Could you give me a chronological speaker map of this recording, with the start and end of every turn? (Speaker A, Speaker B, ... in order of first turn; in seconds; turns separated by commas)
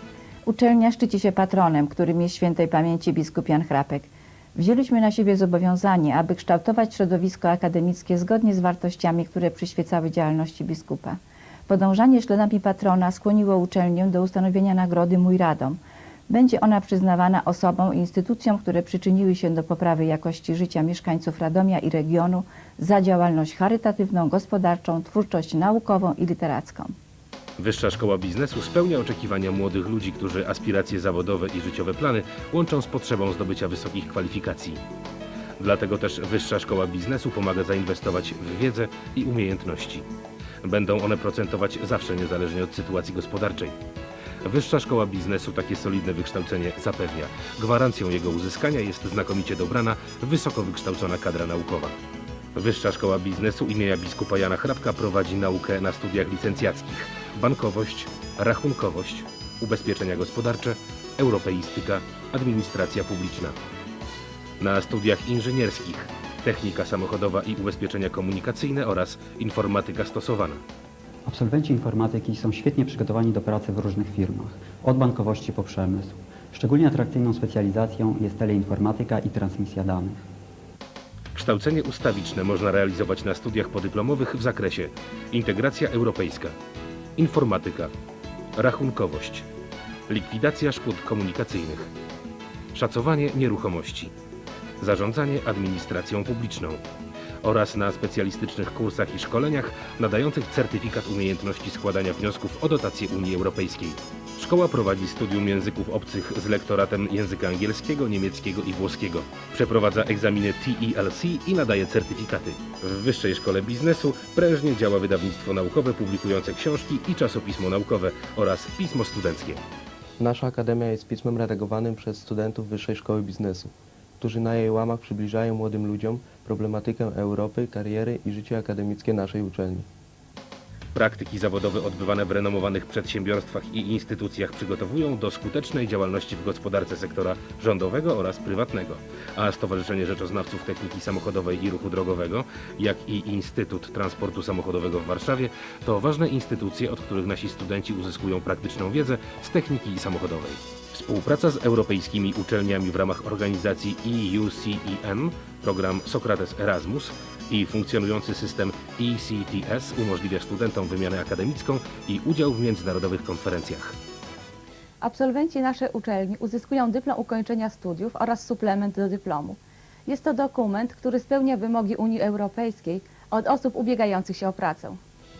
Speaker A: 0.5-26.9, Speaker B: 27.6-34.8, Speaker B: 35.6-40.0, Speaker B: 40.6-43.8, Speaker B: 44.4-52.0, Speaker B: 52.5-63.6, Speaker B: 64.6-70.6, Speaker C: 71.3-80.2, Speaker B: 81.3-86.5, Speaker B: 87.2-87.9, Speaker B: 88.6-89.5, Speaker B: 90.1-91.9, Speaker B: 92.7-94.1, Speaker B: 94.8-96.8, Speaker B: 97.4-119.6, Speaker D: 120.2-129.9, Speaker B: 130.9-163.9, Speaker E: 165.0-175.0